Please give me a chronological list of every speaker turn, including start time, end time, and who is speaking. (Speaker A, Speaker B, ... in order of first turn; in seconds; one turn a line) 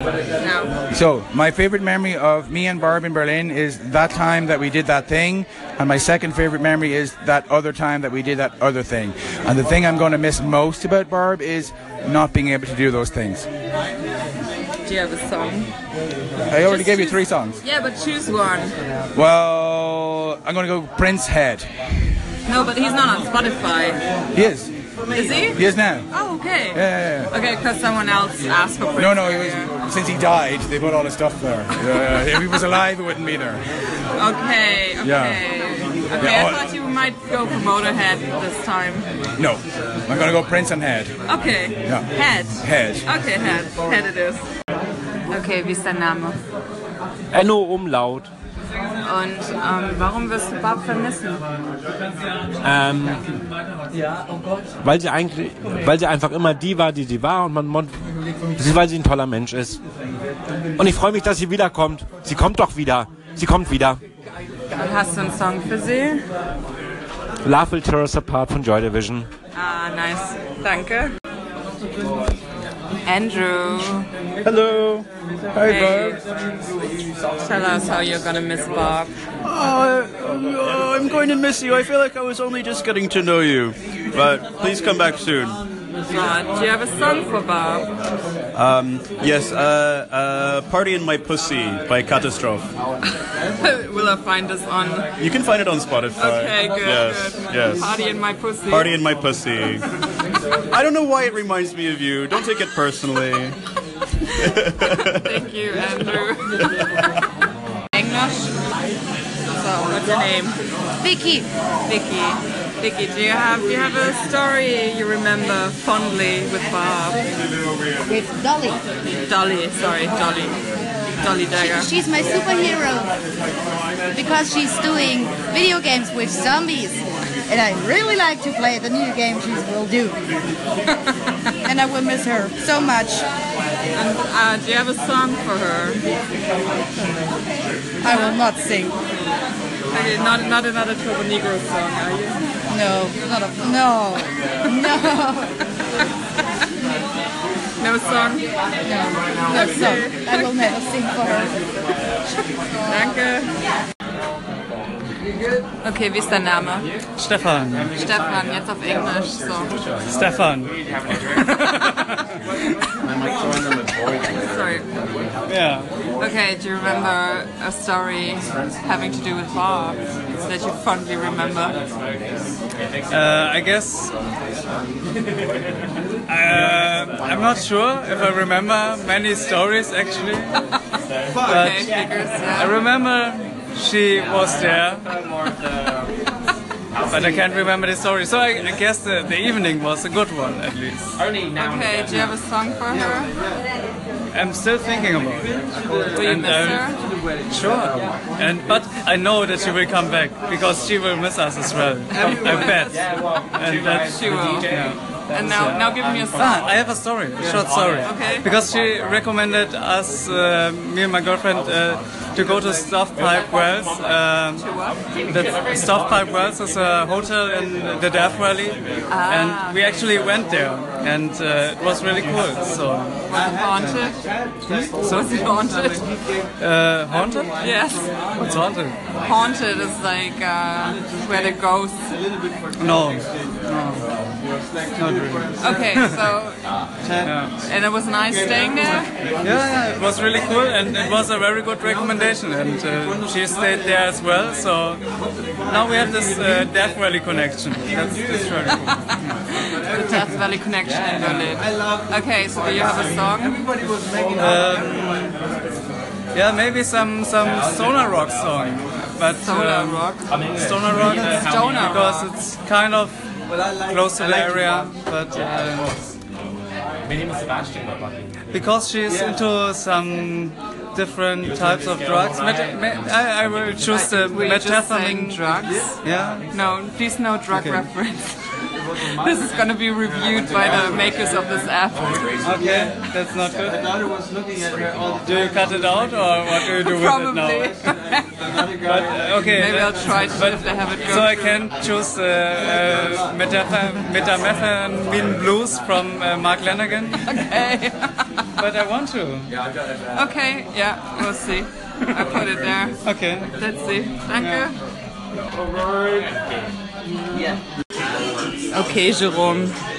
Speaker A: 0.4-0.7
Speaker B: 0.9-13.5
Speaker A: 14.8-15.7
Speaker B: 16.5-17.6
Speaker A: 16.6-18.8
Speaker B: 19.1-21.7
Speaker A: 22.5-24.0
Speaker B: 24.3-24.7
Speaker A: 25.1-25.6
Speaker B: 25.3-26.0
Speaker A: 26.1-29.7
Speaker B: 26.7-27.3
Speaker B: 29.0-33.6
Speaker A: 34.1-39.1
Speaker B: 35.0-35.4
Speaker B: 36.2-36.6
Speaker B: 39.4-41.1
Speaker A: 41.3-44.5
Speaker B: 41.9-43.0
Speaker A: 45.3-46.4
Speaker C: 47.3-48.3
Speaker A: 49.0-51.4
Speaker C: 52.6-53.2
Speaker C: 54.8-57.9
Speaker C: 58.6-59.8
Speaker C: 60.8-64.0
Speaker A: 64.7-66.2
Speaker C: 67.4-69.3
Speaker A: 69.5-71.1
Speaker A: 73.0-74.1
Speaker D: 74.4-76.1
Speaker A: 75.6-76.2
Speaker A: 77.4-79.1
Speaker D: 79.4-85.6
Speaker A: 86.1-87.9
Speaker D: 88.5-92.7
Speaker A: 93.6-95.1
Speaker D: 95.2-97.9
Speaker A: 96.2-99.0
Speaker D: 98.7-99.8
Speaker D: 100.7-103.5
Speaker D: 104.4-105.3
Speaker A: 105.0-107.2
Speaker A: 108.0-108.6
Speaker A: 109.5-110.6
Speaker E: 111.0-111.5
Speaker A: 111.9-117.2
Speaker E: 118.1-118.8
Speaker A: 119.3-120.6
Speaker A: 121.2-121.9
Speaker E: 121.5-123.1
Speaker E: 124.1-130.2
Speaker E: 131.7-133.2
Speaker A: 133.9-136.0
Speaker E: 138.0-138.9
Speaker A: 138.1-138.4
Speaker A: 139.9-142.4
Speaker E: 142.7-145.5
Speaker A: 147.8-148.4
Speaker E: 148.8-151.5
Speaker A: 149.5-150.5
Speaker A: 152.8-153.5
Speaker A: 155.8-156.9
Speaker F: 157.2-157.9
Speaker A: 157.9-159.7
Speaker F: 160.1-162.2
Speaker A: 164.3-164.8
Speaker F: 165.5-165.9
Speaker A: 166.2-171.8
Speaker F: 173.1-174.1
Speaker F: 176.3-180.6
Speaker F: 181.4-181.9
Speaker A: 181.4-182.8
Speaker F: 182.5-185.1
Speaker F: 187.1-191.2
Speaker A: 191.6-193.3
Speaker F: 194.3-195.6
Speaker A: 196.1-197.0
Speaker F: 196.1-196.9
Speaker F: 197.5-214.7
Speaker A: 202.1-203.0
Speaker A: 204.0-204.8
Speaker A: 205.3-206.6
Speaker A: 208.0-208.5
Speaker A: 214.6-215.0
Speaker F: 215.3-223.2
Speaker A: 219.1-219.9
Speaker A: 223.3-224.2
Speaker F: 223.8-224.1
Speaker A: 224.9-226.1
Speaker F: 226.6-227.6
Speaker A: 227.6-228.1
Speaker F: 228.3-229.0
Speaker A: 229.2-232.2
Speaker F: 232.8-234.0
Speaker F: 234.9-236.1
Speaker A: 235.6-236.6
Speaker F: 237.2-237.5
Speaker A: 237.6-239.1
Speaker F: 239.4-245.0
Speaker F: 245.7-249.1
Speaker A: 249.8-253.6
Speaker F: 254.3-255.3
Speaker F: 256.3-260.0
Speaker A: 259.4-260.3
Speaker F: 260.6-263.2
Speaker A: 261.1-262.3
Speaker F: 263.9-266.0
Speaker F: 268.5-275.4
Speaker A: 273.9-278.5
Speaker F: 276.0-276.5
Speaker A: 279.1-282.1
Speaker F: 282.4-283.9
Speaker F: 285.2-287.7
Speaker A: 286.8-288.3
Speaker F: 288.8-297.3
Speaker A: 289.5-291.7
Speaker A: 297.2-298.2
Speaker F: 298.6-299.5
Speaker A: 300.1-303.0
Speaker F: 303.0-303.5
Speaker A: 303.6-304.8
Speaker F: 304.4-304.7
Speaker A: 308.7-309.8